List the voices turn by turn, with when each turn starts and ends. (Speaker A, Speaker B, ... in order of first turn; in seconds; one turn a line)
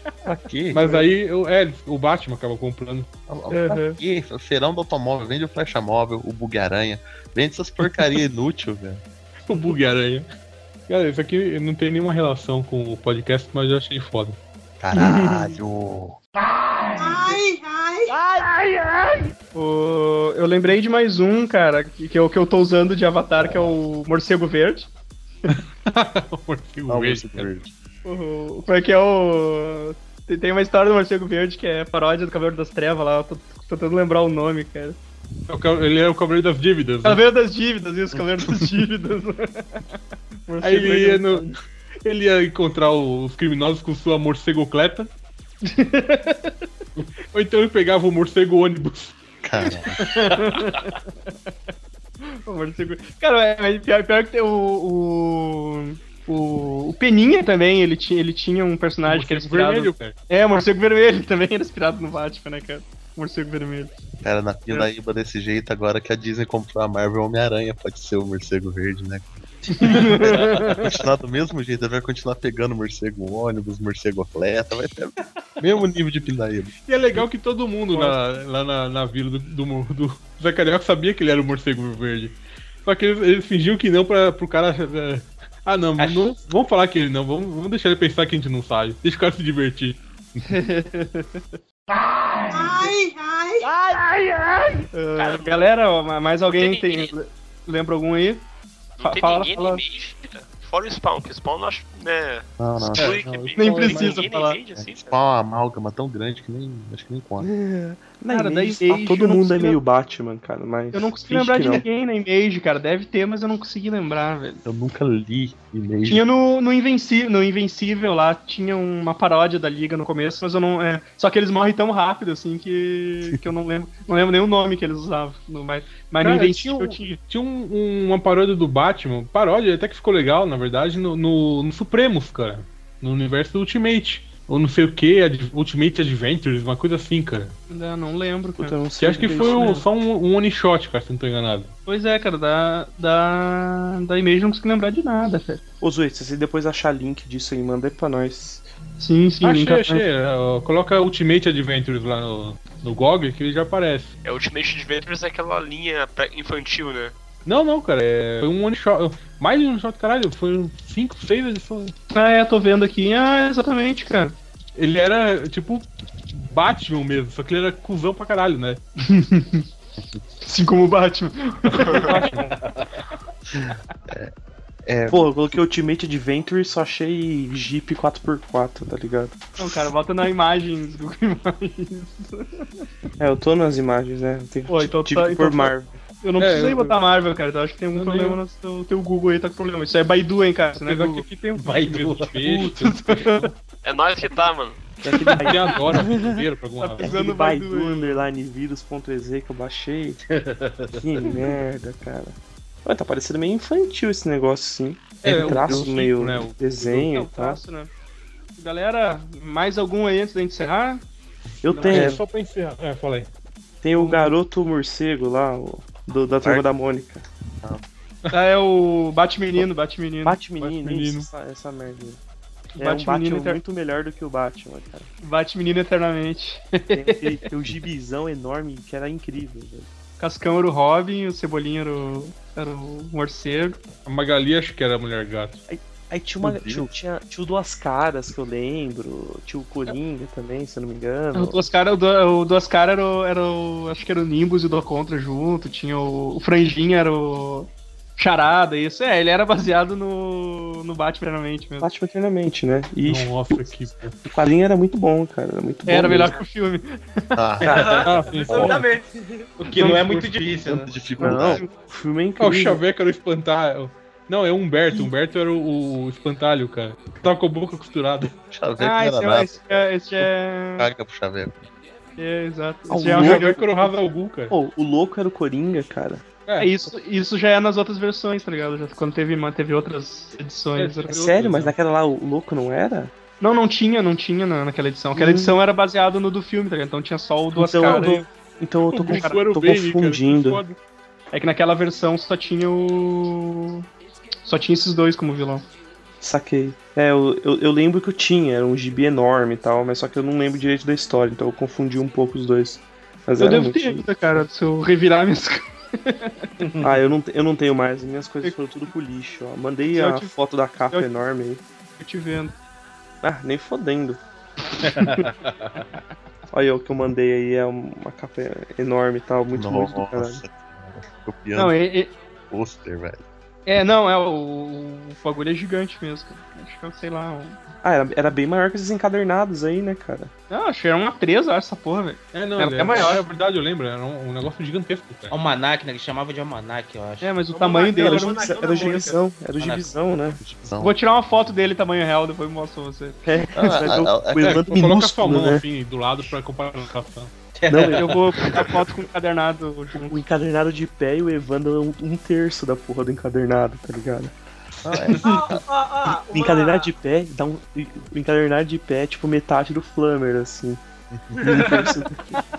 Speaker A: 0.2-1.0
Speaker B: 0.7-3.1
Speaker A: 3.3-9.0
Speaker C: 3.5-4.0
Speaker B: 9.5-10.3
Speaker B: 10.9-14.4
Speaker A: 14.8-16.2
Speaker C: 14.9-15.4
Speaker B: 18.7-19.0
Speaker C: 19.5-24.9
Speaker B: 25.5-27.5
Speaker A: 26.9-27.7
Speaker C: 28.0-35.0
Speaker B: 35.5-37.2
Speaker C: 37.0-41.5
Speaker B: 40.6-41.5
Speaker B: 42.0-45.1
Speaker C: 45.6-46.6
Speaker B: 47.0-49.2
Speaker A: 49.4-50.0
Speaker C: 50.0-51.3
Speaker C: 52.2-63.9
Speaker B: 59.0-60.1
Speaker A: 64.2-76.7
Speaker C: 69.8-70.8
Speaker B: 76.8-90.0
Speaker D: 86.0-86.3
Speaker C: 90.4-91.5
Speaker C: 94.9-98.4
Speaker E: 95.2-95.6
Speaker E: 96.6-97.1
Speaker E: 99.0-105.2
Speaker C: 99.0-99.8
Speaker A: 102.6-103.2
Speaker B: 103.2-104.2
Speaker C: 103.6-104.6
Speaker A: 104.8-107.5
Speaker F: 107.4-111.8
Speaker C: 108.3-109.8
Speaker C: 110.9-114.6
Speaker A: 114.6-116.2
Speaker C: 116.1-127.2
Speaker B: 126.2-137.5
Speaker C: 137.7-138.8
Speaker F: 138.6-139.8
Speaker B: 139.0-141.7
Speaker C: 139.3-139.8
Speaker C: 141.8-145.6
Speaker F: 145.8-148.7
Speaker C: 149.0-150.0
Speaker B: 149.4-154.1
Speaker E: 154.2-157.1
Speaker B: 157.4-161.9
Speaker C: 162.1-164.4
Speaker B: 164.8-168.8
Speaker C: 169.0-169.7
Speaker C: 170.4-172.3
Speaker B: 171.8-172.5
Speaker D: 172.6-172.9
Speaker A: 174.8-175.6
Speaker F: 175.1-179.4
Speaker C: 179.6-182.7
Speaker F: 183.2-186.0
Speaker C: 184.7-191.2
Speaker B: 186.4-187.0
Speaker B: 187.9-188.4
Speaker B: 190.8-193.5
Speaker D: 191.5-192.5
Speaker C: 192.5-193.5
Speaker E: 193.8-194.8
Speaker F: 195.0-196.4
Speaker B: 195.4-197.2
Speaker C: 196.8-198.2
Speaker F: 197.0-200.2
Speaker D: 200.3-201.0
Speaker F: 200.9-207.6
Speaker B: 205.2-207.1
Speaker C: 206.9-207.9
Speaker C: 208.6-211.0
Speaker F: 211.6-212.2
Speaker C: 211.7-212.2
Speaker B: 211.8-213.3
Speaker F: 213.8-217.2
Speaker C: 213.9-214.3
Speaker A: 216.4-216.7
Speaker C: 218.3-220.4
Speaker F: 220.2-222.2
Speaker B: 220.6-221.3
Speaker C: 222.8-223.6
Speaker F: 222.8-225.1
Speaker C: 225.2-227.4
Speaker F: 226.9-229.9
Speaker C: 230.2-233.8
Speaker B: 234.1-235.6
Speaker F: 235.7-241.6
Speaker A: 236.4-236.9
Speaker C: 241.3-251.9
Speaker F: 251.8-253.7
Speaker B: 253.0-254.2
Speaker F: 254.2-256.4
Speaker C: 255.9-257.4
Speaker A: 257.4-258.8
Speaker G: 257.6-259.5
Speaker D: 257.7-257.9
Speaker B: 258.0-258.9
Speaker D: 259.6-260.9
Speaker C: 259.8-260.1
Speaker B: 259.8-260.2
Speaker A: 260.8-261.6
Speaker F: 261.2-262.8
Speaker C: 261.3-261.7
Speaker B: 262.4-268.4
Speaker A: 268.5-271.6
Speaker C: 268.8-270.9
Speaker C: 272.2-273.6
Speaker F: 272.9-273.9
Speaker B: 273.1-274.5
Speaker F: 274.5-276.2
Speaker B: 276.5-276.8
Speaker C: 276.6-281.1
Speaker B: 280.8-281.7
Speaker F: 281.1-283.1
Speaker C: 283.4-288.2
Speaker F: 285.1-285.6
Speaker F: 287.5-290.6
Speaker B: 288.9-290.8
Speaker C: 289.1-289.4
Speaker C: 291.3-293.8
Speaker C: 294.4-295.6
Speaker F: 296.2-304.1
Speaker C: 303.4-306.5
Speaker F: 306.8-311.6
Speaker C: 309.9-310.3
Speaker C: 312.0-312.5
Speaker F: 313.2-314.2
Speaker D: 314.8-315.8
Speaker F: 316.5-320.4
Speaker A: 319.5-321.8
Speaker C: 321.6-322.1
Speaker A: 322.5-323.2
Speaker C: 323.6-327.6
Speaker F: 327.8-330.3
Speaker C: 330.5-333.2
Speaker B: 332.3-335.3
Speaker D: 335.3-337.5
Speaker C: 337.2-339.1
Speaker G: 337.5-339.2
Speaker F: 338.0-340.4
Speaker D: 339.6-339.9
Speaker A: 340.4-340.9
Speaker C: 340.8-343.2
Speaker F: 343.2-345.6
Speaker A: 343.6-344.7
Speaker B: 344.4-347.3
Speaker D: 347.5-348.6
Speaker F: 347.7-348.1
Speaker C: 347.9-350.2
Speaker F: 350.0-354.3
Speaker A: 354.8-355.3
Speaker D: 355.0-355.3
Speaker G: 355.1-356.9
Speaker F: 356.3-360.8
Speaker A: 361.1-361.8
Speaker F: 361.4-362.2
Speaker G: 361.5-361.9